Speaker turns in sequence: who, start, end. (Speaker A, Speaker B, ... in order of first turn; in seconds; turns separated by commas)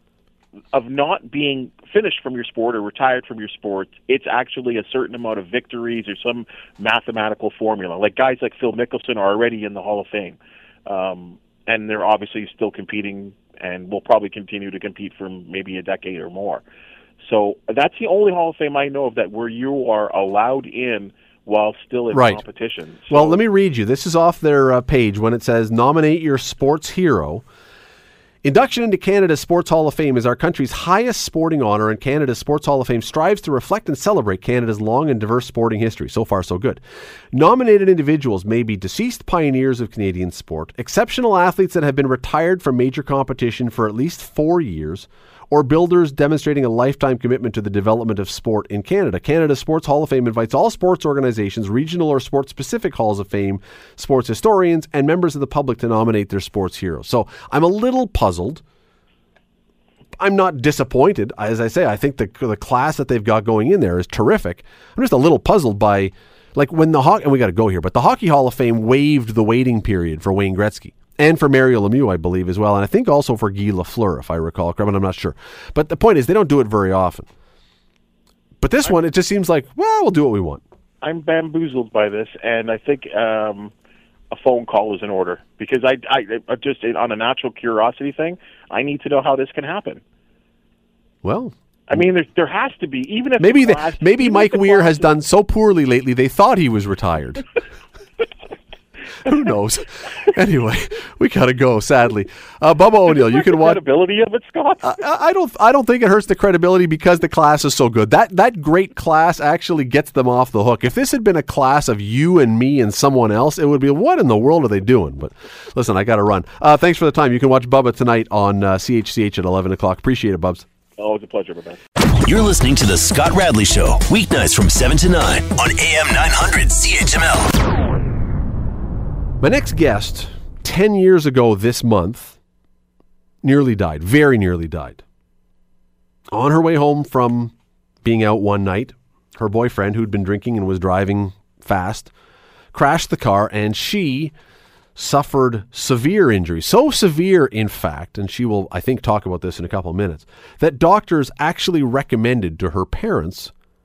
Speaker A: 0.7-16.6, Speaker A: 17.2-23.4, Speaker B: 22.1-22.4, Speaker B: 23.1-27.4, Speaker B: 28.4-36.8, Speaker B: 37.3-58.6, Speaker B: 60.2-77.3, Speaker B: 78.6-80.6, Speaker A: 81.0-83.7, Speaker A: 84.3-90.0, Speaker B: 91.2-92.0, Speaker A: 91.9-95.1, Speaker B: 93.4-97.4, Speaker B: 99.2-103.8, Speaker A: 103.1-105.0, Speaker B: 104.8-120.7, Speaker A: 121.0-121.8, Speaker C: 122.1-127.5, Speaker B: 129.4-132.4, Speaker B: 133.4-135.0, Speaker B: 136.3-137.5, Speaker B: 138.0-142.1, Speaker B: 142.7-144.3, Speaker B: 144.9-153.5